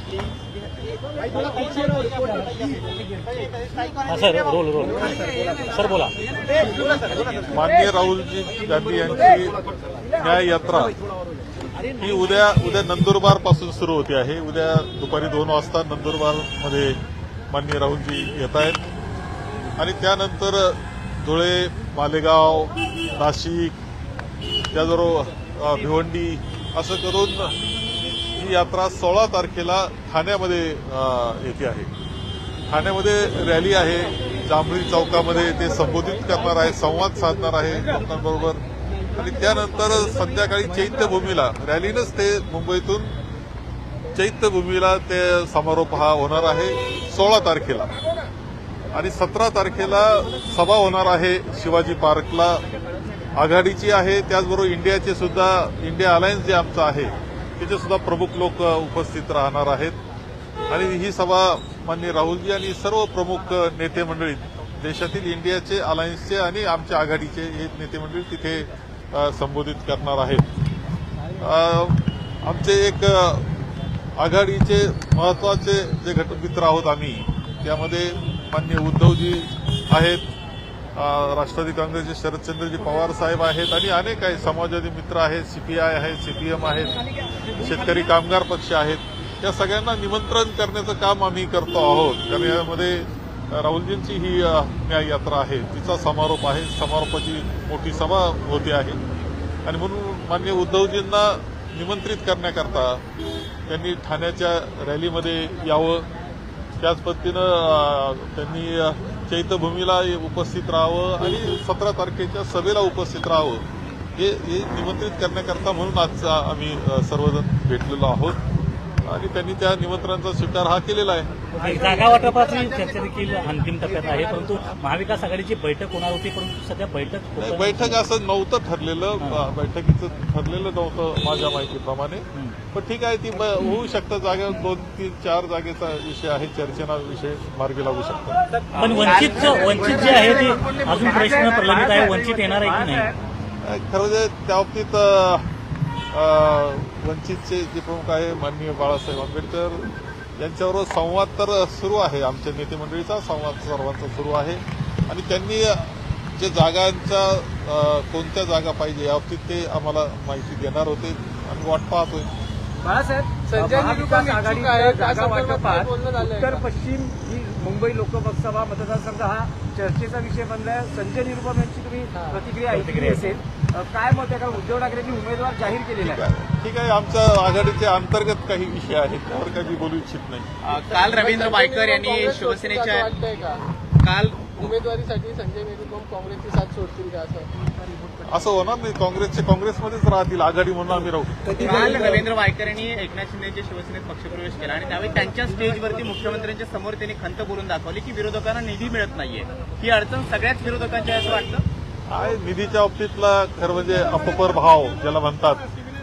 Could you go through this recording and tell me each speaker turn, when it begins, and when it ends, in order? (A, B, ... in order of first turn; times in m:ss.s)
0:04.0-0:06.2 A
0:07.5-0:09.6 B
0:10.1-0:11.0 B
0:11.9-0:17.0 B
0:17.5-0:18.8 B
0:19.8-0:23.8 B
0:24.7-0:27.6 B
0:28.4-0:31.9 B
0:32.7-0:38.6 B
0:39.1-0:43.1 B
0:44.1-0:47.9 B
0:48.9-0:52.6 B
0:53.3-1:00.0 B
1:00.7-1:10.4 B
1:11.4-1:13.5 B
1:14.2-1:20.2 B
1:20.9-1:39.0 B
1:39.6-1:43.0 B
1:43.7-1:46.0 B
1:46.8-1:53.6 B
1:54.2-1:58.4 B
1:59.0-2:01.3 B
2:01.5-2:08.0 A
2:07.4-2:18.4 B
2:18.7-2:23.1 A
2:18.7-2:23.1 C
2:18.8-2:20.7 D
2:23.6-2:25.5 B
2:26.1-2:42.3 B
2:42.8-2:56.2 C
2:43.5-2:46.6 E
2:52.1-2:52.4 E
2:52.7-2:53.3 A
2:56.0-3:00.5 B
3:00.6-3:03.3 D
3:01.0-3:03.6 E
3:04.0-3:04.7 D
3:04.6-3:07.5 E
3:08.2-3:11.6 B
3:11.6-3:21.6 D
3:11.6-3:12.2 C
3:22.1-3:25.6 B